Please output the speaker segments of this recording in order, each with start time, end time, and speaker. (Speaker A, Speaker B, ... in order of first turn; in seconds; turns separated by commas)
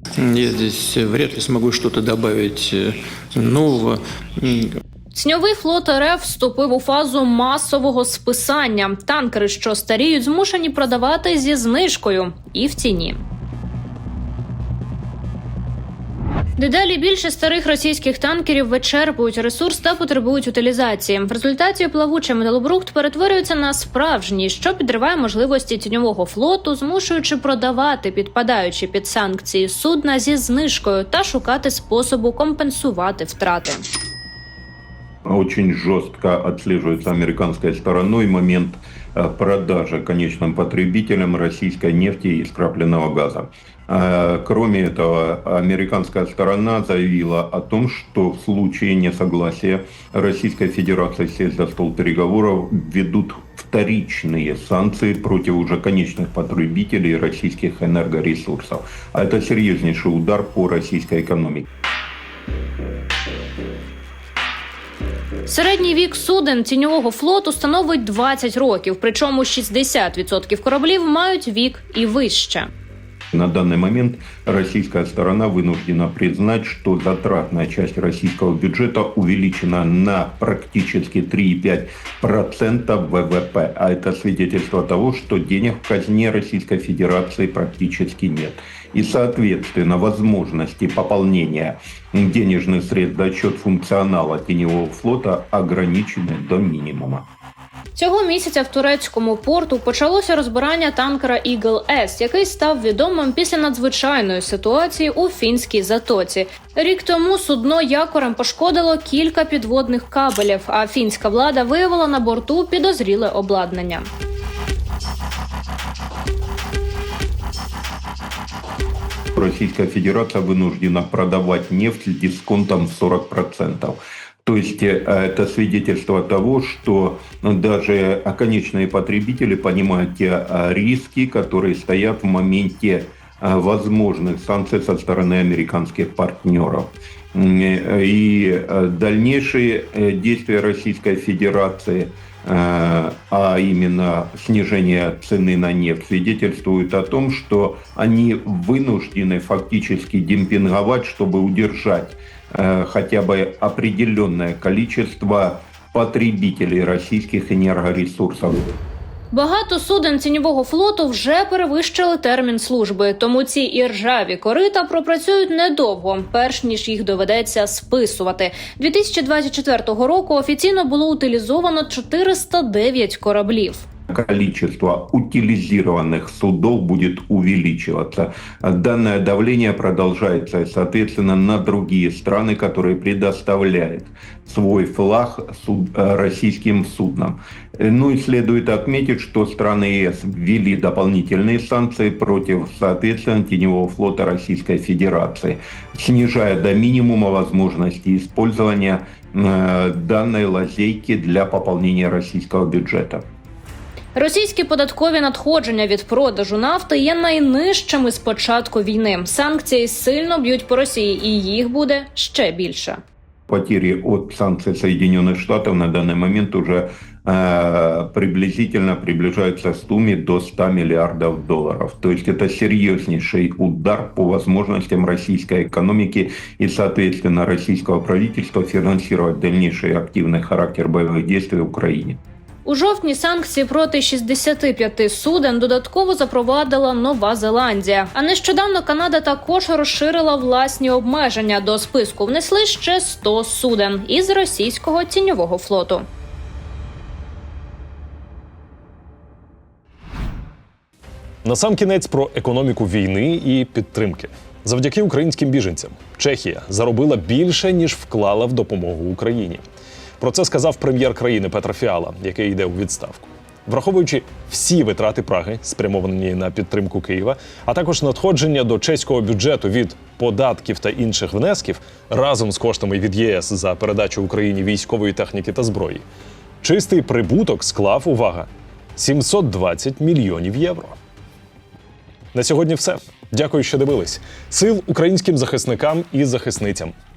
Speaker A: 0.2-4.8, Speaker B: 5.2-13.2, Speaker B: 16.6-33.9, Speaker C: 35.2-61.7, Speaker B: 65.5-72.7, Speaker C: 73.3-97.3, Speaker B: 98.0-114.1, Speaker C: 119.3-158.7, Speaker B: 159.3-173.9, Speaker C: 174.1-203.2, Speaker B: 204.2-213.0, Speaker C: 213.5-232.2, Speaker B: 232.7-246.1, Speaker D: 251.4-259.6, Speaker D: 260.2-276.0, Speaker D: 276.6-281.0, Speaker D: 282.3-286.9